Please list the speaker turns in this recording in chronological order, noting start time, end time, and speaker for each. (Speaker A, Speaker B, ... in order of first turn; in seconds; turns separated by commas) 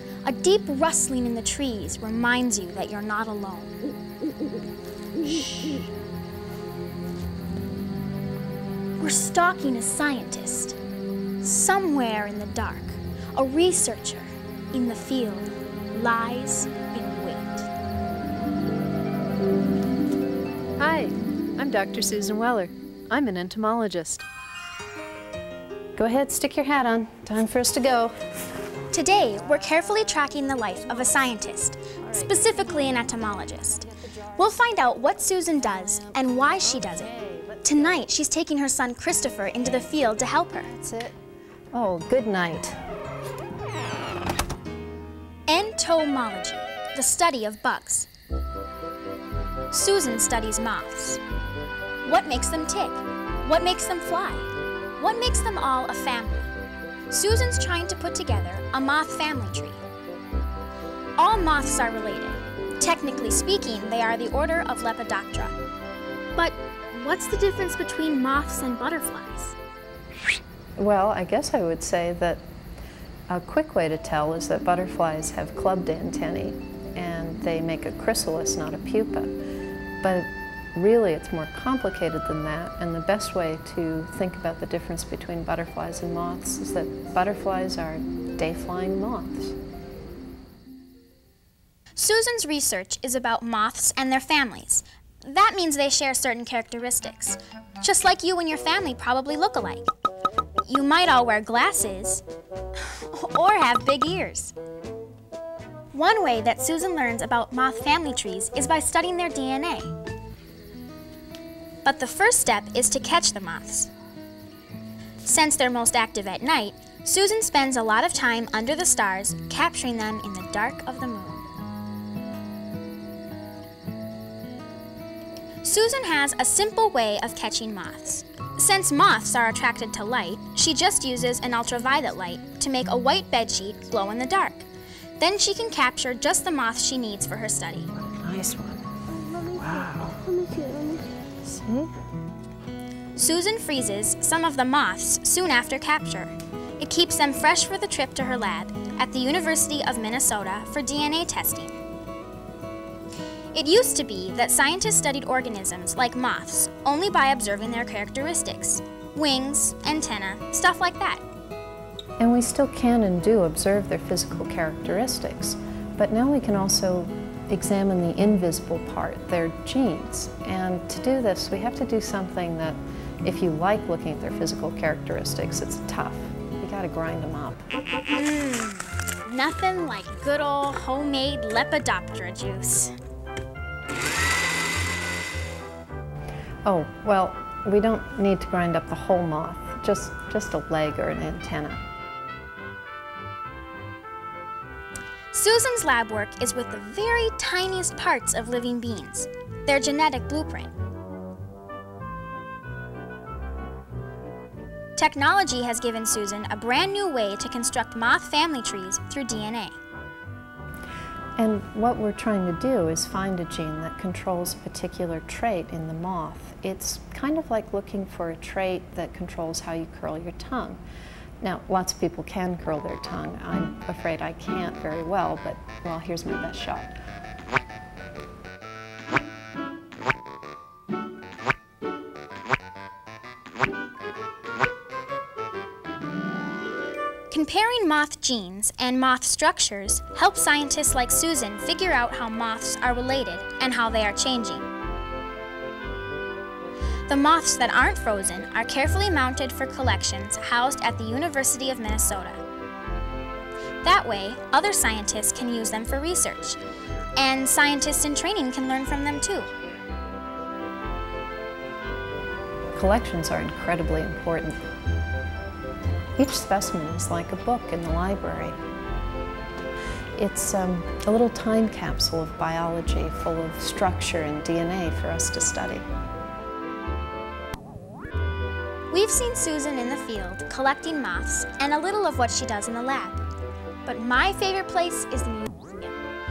Speaker A: 0.2-3.8, Speaker A: 5.2-5.9, Speaker A: 9.0-10.8, Speaker A: 11.4-17.7, Speaker B: 20.8-24.2, Speaker B: 25.9-28.1, Speaker A: 28.9-37.1, Speaker B: 36.9-37.6, Speaker A: 37.6-40.7, Speaker B: 40.6-41.1, Speaker B: 41.7-42.8, Speaker A: 45.5-48.1, Speaker A: 49.7-51.2, Speaker A: 52.0-56.5, Speaker A: 57.1-59.8, Speaker A: 61.2-65.5, Speaker A: 66.3-69.5, Speaker B: 70.8-72.4, Speaker B: 73.3-79.3, Speaker B: 80.0-89.6, Speaker A: 92.0-99.9, Speaker A: 100.6-102.2, Speaker A: 102.7-104.5, Speaker A: 105.9-110.0, Speaker A: 111.8-113.9, Speaker A: 115.2-121.5, Speaker A: 125.6-134.7, Speaker A: 135.2-137.9, Speaker B: 138.0-141.9, Speaker A: 143.2-151.8, Speaker A: 153.5-161.2, Speaker B: 162.2-177.7, Speaker A: 178.1-182.9, Speaker B: 186.6-191.8, Speaker A: 195.3-200.7, Speaker A: 204.9-209.8, Speaker B: 211.4-220.8, Speaker B: 221.4-226.9, Speaker A: 237.3-244.7, Speaker A: 247.1-252.4, Speaker A: 253.8-256.6, Speaker A: 257.2-259.5, Speaker B: 262.7-264.6, Speaker B: 266.2-268.6, Speaker B: 270.2-275.8, Speaker A: 278.9-283.2, Speaker A: 283.8-285.9